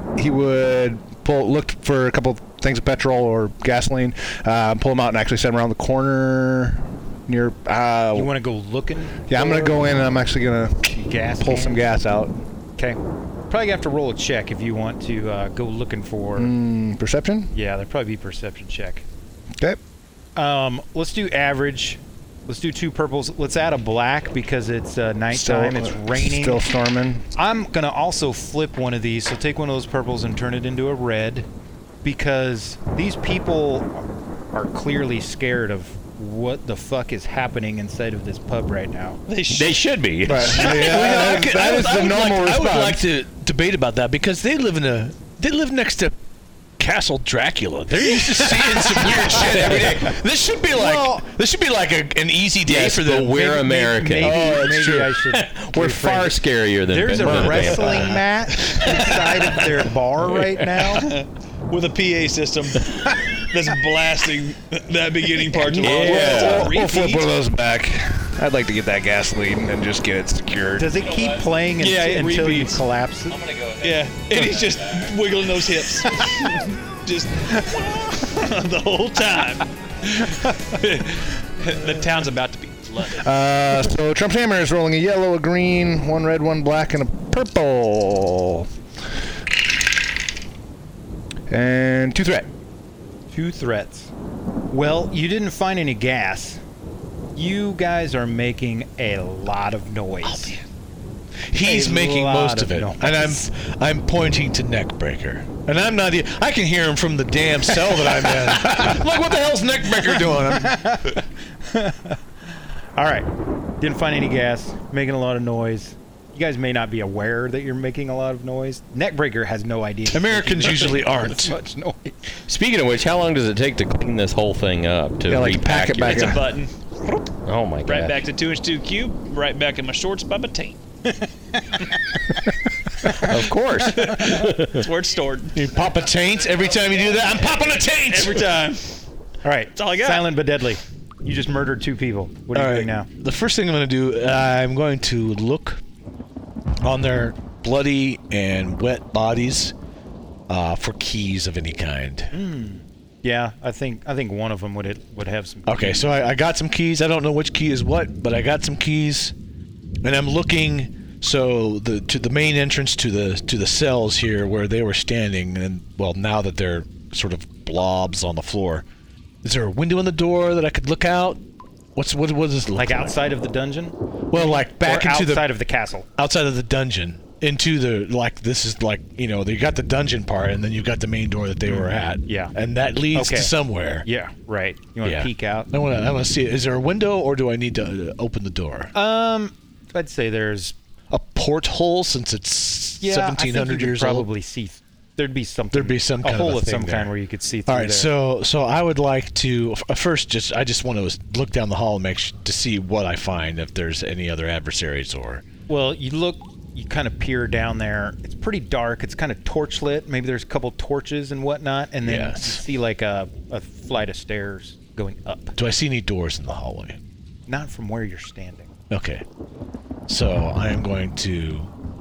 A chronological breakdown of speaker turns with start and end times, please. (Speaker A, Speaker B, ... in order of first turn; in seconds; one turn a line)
Speaker A: 0.2-8.3
Speaker B: 8.1-10.1
Speaker A: 9.3-12.4
Speaker B: 10.9-11.9
Speaker B: 12.8-16.5
Speaker A: 16.4-17.5
Speaker B: 17.5-19.1
Speaker B: 20.4-26.7
Speaker A: 25.3-27.2
Speaker B: 27.4-31.5
Speaker B: 32.0-39.2
Speaker C: 39.3-39.8
Speaker D: 39.5-40.8
Speaker A: 40.2-43.0
Speaker C: 40.4-41.3
Speaker E: 40.5-46.1
Speaker E: 46.8-55.1
Speaker B: 48.8-49.9
Speaker D: 49.4-50.1
Speaker B: 50.8-51.2
Speaker D: 52.6-54.4
Speaker B: 53.5-61.1
Speaker A: 54.2-54.5
Speaker D: 55.3-58.2
Speaker E: 57.2-57.8
Speaker C: 61.0-67.3
Speaker A: 65.7-70.9
Speaker D: 65.8-66.7
Speaker B: 70.8-73.4
Speaker D: 71.0-71.5
Speaker C: 71.8-72.8
Speaker D: 73.3-75.1
Speaker C: 73.8-83.2
Speaker A: 83.2-88.7
Speaker A: 91.5-92.5
Speaker B: 93.3-94.1
Speaker B: 94.7-96.6
Speaker B: 97.3-100.5
Speaker E: 100.3-100.5
Speaker E: 101.5-111.1
Speaker B: 101.6-103.5
Speaker B: 110.3-113.3
Speaker B: 113.8-122.3
Speaker E: 120.1-121.5
Speaker D: 122.5-126.4
Speaker A: 125.3-126.6
Speaker C: 126.0-127.2
Speaker D: 127.5-128.3
Speaker C: 127.8-130.8
Speaker B: 131.1-132.2
Speaker D: 133.1-134.8
Speaker C: 133.9-135.6
Speaker E: 135.6-138.6
Speaker C: 138.1-139.0
Speaker B: 139.4-143.1
Speaker C: 139.8-140.3
Speaker E: 142.5-145.8
Speaker E: 146.8-149.7
Speaker E: 150.5-152.4
Speaker B: 152.3-156.0
Speaker E: 155.7-159.3
Speaker E: 160.0-168.8
Speaker E: 169.4-171.4
Speaker E: 172.0-173.2
Speaker B: 172.8-176.1
Speaker E: 174.3-175.5
Speaker E: 176.2-184.1
Speaker B: 181.7-182.6
Speaker B: 183.1-185.7
Speaker E: 185.0-188.9
Speaker B: 188.9-190.8
Speaker E: 191.1-194.3
Speaker B: 193.0-198.1
Speaker E: 195.7-197.1
Speaker E: 197.7-205.4
Speaker B: 205.7-215.6
Speaker E: 212.0-212.6
Speaker E: 215.6-217.0
Speaker B: 217.5-218.7
Speaker E: 218.9-219.2
Speaker E: 220.1-221.7